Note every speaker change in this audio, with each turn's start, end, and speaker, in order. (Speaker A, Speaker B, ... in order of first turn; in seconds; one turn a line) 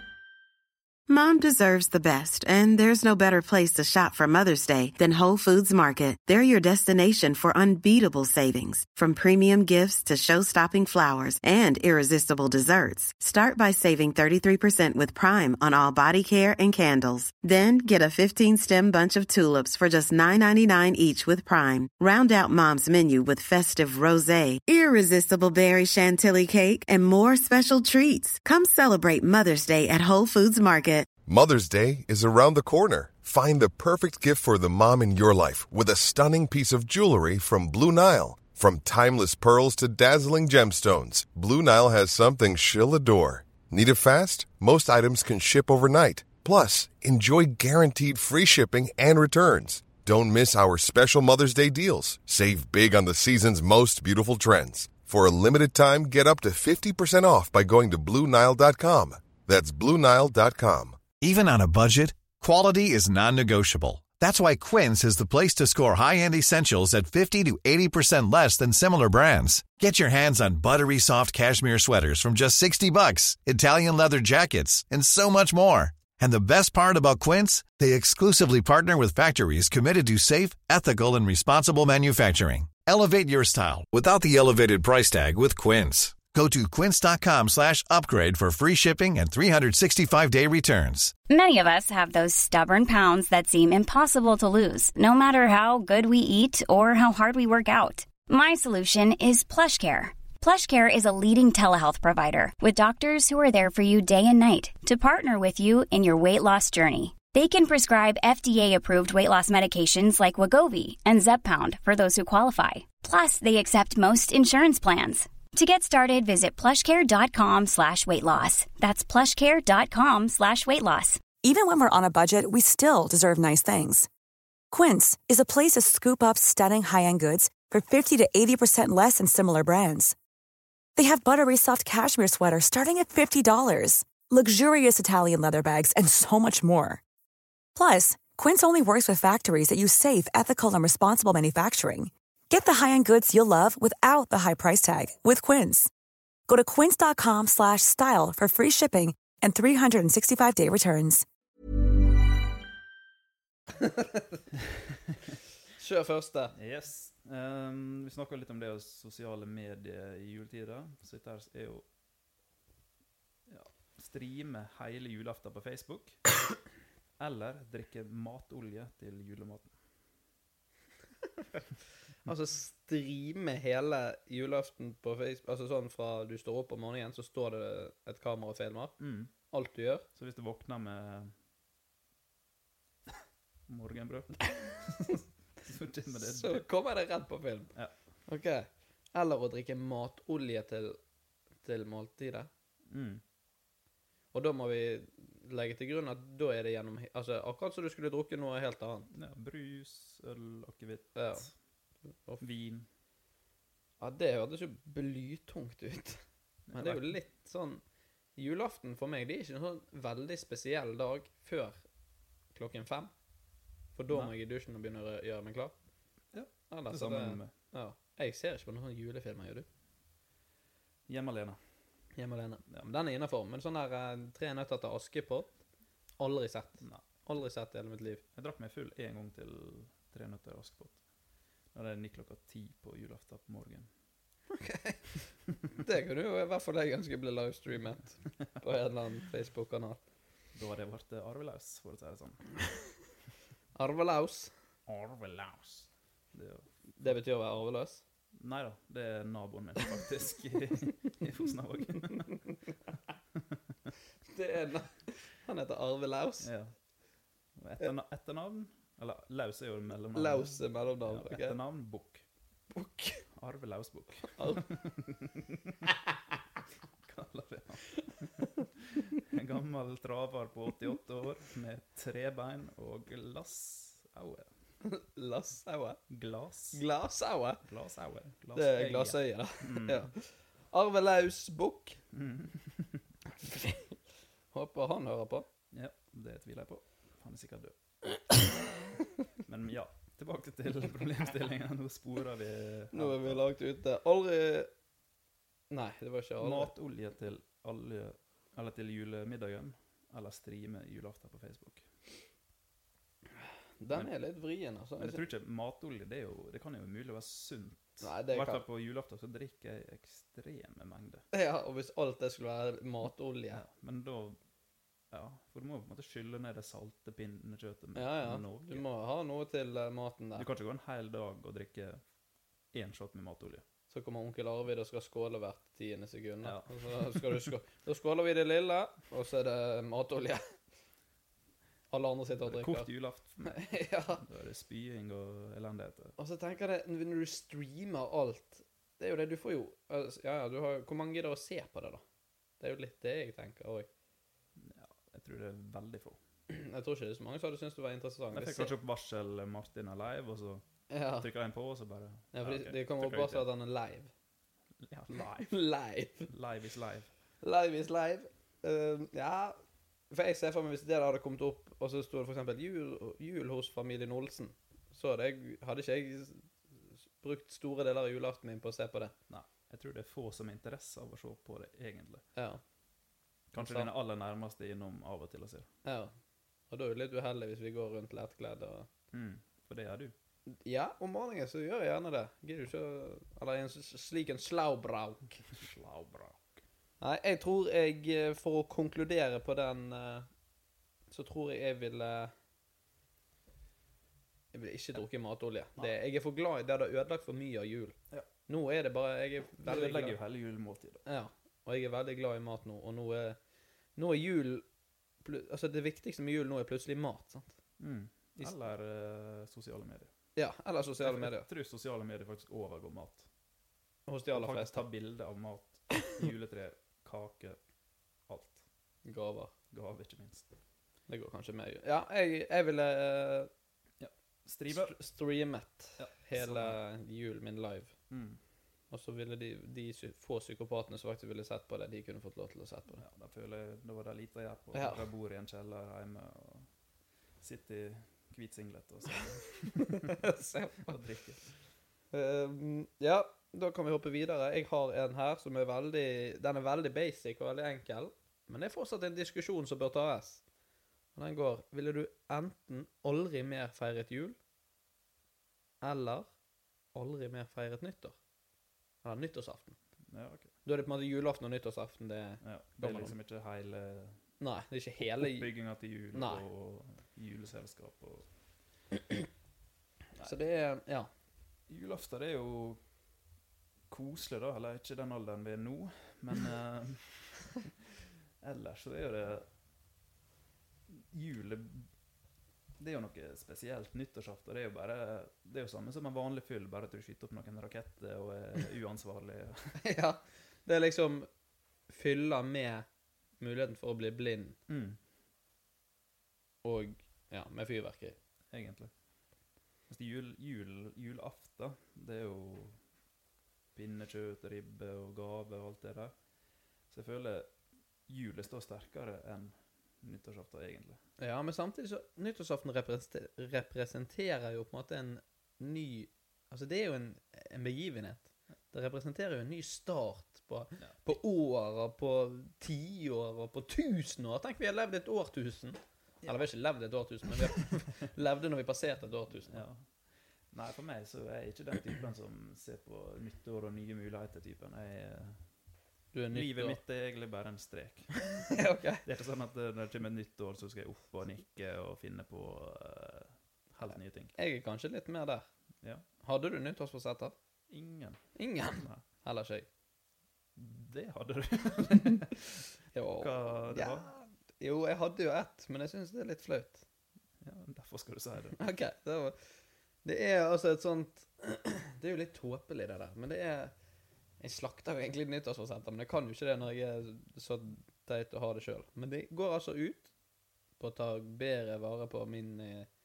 Speaker A: 1.1-31.1
Speaker B: 31.2-61.1
Speaker C: 61.2-91.1
Speaker D: 91.3-121.3
Speaker E: 121.4-124.1
Speaker E: 124.7-130.2
Speaker E: 131.0-137.0
Speaker E: 137.8-145.9
Speaker E: 146.5-151.2
Speaker F: 153.8-154.1
Speaker F: 155.8-156.5
Speaker G: 156.6-161.8
Speaker G: 163.5-166.2
Speaker G: 167.2-169.7
Speaker F: 172.3-179.0
Speaker G: 179.0-179.3
Speaker F: 179.5-180.1
Speaker G: 180.2-181.3
Speaker G: 183.7-186.7
Speaker F: 186.2-187.7
Speaker F: 188.3-191.0
Speaker F: 191.6-192.5
Speaker G: 192.9-193.2
Speaker F: 194.3-199.1
Speaker G: 199.1-201.5
Speaker F: 201.2-201.5
Speaker G: 202.4-202.9
Speaker F: 204.0-206.2
Speaker G: 206.7-207.2
Speaker F: 206.8-207.8
Speaker F: 208.4-211.8
Speaker F: 212.5-213.1
Speaker F: 214.0-215.7
Speaker G: 216.3-217.5
Speaker F: 216.7-219.7
Speaker G: 221.1-221.6
Speaker F: 222.2-225.5
Speaker F: 226.2-228.2
Speaker G: 228.3-231.0
Speaker G: 231.7-233.9
Speaker F: 234.6-235.0
Speaker F: 235.7-240.0
Speaker G: 240.5-242.5
Speaker F: 243.8-244.5
Speaker G: 244.9-247.2
Speaker F: 247.0-248.0
Speaker G: 248.4-252.4
Speaker F: 254.3-256.5
Speaker G: 256.4-256.7
Speaker G: 257.6-262.2
Speaker F: 260.1-261.6
Speaker F: 262.7-263.2
Speaker G: 263.4-265.8
Speaker F: 264.4-264.6
Speaker G: 267.1-274.5
Speaker F: 274.8-276.0
Speaker G: 276.1-276.8
Speaker F: 276.7-277.6
Speaker G: 277.6-280.1
Speaker F: 278.6-282.0
Speaker G: 282.1-283.0
Speaker F: 283.4-284.0
Speaker F: 284.5-285.5
Speaker G: 285.7-287.7
Speaker G: 289.4-293.4
Speaker F: 292.9-294.7
Speaker F: 295.7-296.7
Speaker G: 296.4-301.9
Speaker F: 303.8-305.2
Speaker G: 305.0-311.2
Speaker F: 308.0-308.6
Speaker F: 311.3-313.6
Speaker G: 313.5-314.4
Speaker G: 315.1-318.9
Speaker F: 318.0-320.5
Speaker G: 320.4-322.0
Speaker G: 322.7-323.6
Speaker F: 323.9-330.4
Speaker G: 326.4-327.5
Speaker F: 331.9-332.9
Speaker G: 332.4-336.2
Speaker F: 333.4-334.2
Speaker F: 336.2-342.0
Speaker F: 342.6-343.9
Speaker G: 344.6-346.2
Speaker F: 346.5-348.7
Speaker G: 348.3-350.6
Speaker F: 350.9-351.3
Speaker G: 351.2-353.5
Speaker F: 352.3-354.1
Speaker G: 354.8-355.6
Speaker F: 355.4-356.3
Speaker G: 356.2-357.1
Speaker F: 357.4-359.6
Speaker F: 360.1-366.5
Speaker F: 367.2-369.1
Speaker G: 369.3-372.2
Speaker F: 372.4-372.6
Speaker G: 373.5-375.7
Speaker F: 373.6-373.9
Speaker F: 375.9-376.1
Speaker F: 376.7-378.9
Speaker G: 379.1-380.1
Speaker F: 380.5-385.4
Speaker G: 385.4-386.6
Speaker F: 387.0-390.3
Speaker F: 391.1-392.3
Speaker F: 394.5-398.0
Speaker F: 398.5-400.2
Speaker G: 399.6-401.1
Speaker F: 401.1-403.4
Speaker F: 404.0-404.7
Speaker F: 405.2-407.6
Speaker G: 407.8-410.1
Speaker F: 410.4-411.5
Speaker G: 411.0-413.3
Speaker F: 414.1-414.8
Speaker G: 414.3-417.6
Speaker G: 418.3-418.6
Speaker F: 419.1-419.5
Speaker G: 419.7-420.5
Speaker F: 421.1-423.5
Speaker G: 424.0-425.0
Speaker F: 424.7-427.9
Speaker G: 426.0-426.8
Speaker G: 428.1-428.4
Speaker F: 428.9-433.0
Speaker G: 433.0-436.7
Speaker F: 434.7-435.0
Speaker G: 437.4-440.2
Speaker F: 439.7-441.0
Speaker G: 440.9-441.4
Speaker F: 442.1-450.4
Speaker F: 451.2-454.4
Speaker F: 455.8-456.3
Speaker F: 456.9-458.2
Speaker F: 459.0-459.8
Speaker G: 460.1-460.5
Speaker F: 460.6-463.2
Speaker G: 462.4-464.2
Speaker F: 464.4-465.5
Speaker G: 465.0-468.3
Speaker F: 466.1-466.4
Speaker F: 470.2-471.1
Speaker G: 471.7-472.8
Speaker G: 473.9-477.6
Speaker G: 478.4-479.5
Speaker G: 480.9-481.9
Speaker G: 482.8-489.7
Speaker F: 489.8-491.3
Speaker F: 491.9-492.9
Speaker F: 493.4-494.6
Speaker G: 494.7-495.0
Speaker F: 496.6-498.2
Speaker G: 498.5-498.9
Speaker G: 499.9-502.8
Speaker G: 503.8-506.1
Speaker G: 506.9-507.5
Speaker G: 508.1-511.0
Speaker F: 511.2-529.6
Speaker G: 520.8-521.1
Speaker G: 529.4-529.9
Speaker G: 530.5-535.4
Speaker F: 536.1-536.8
Speaker G: 536.3-538.2
Speaker F: 538.3-539.0
Speaker G: 539.0-544.3
Speaker F: 544.4-545.5
Speaker F: 546.2-547.4
Speaker G: 547.7-549.0
Speaker F: 548.4-549.7
Speaker G: 550.6-552.5
Speaker F: 552.9-556.8
Speaker G: 553.2-554.1
Speaker G: 557.4-558.6
Speaker F: 558.6-559.4
Speaker F: 560.0-563.7
Speaker F: 564.4-570.1
Speaker F: 570.8-572.9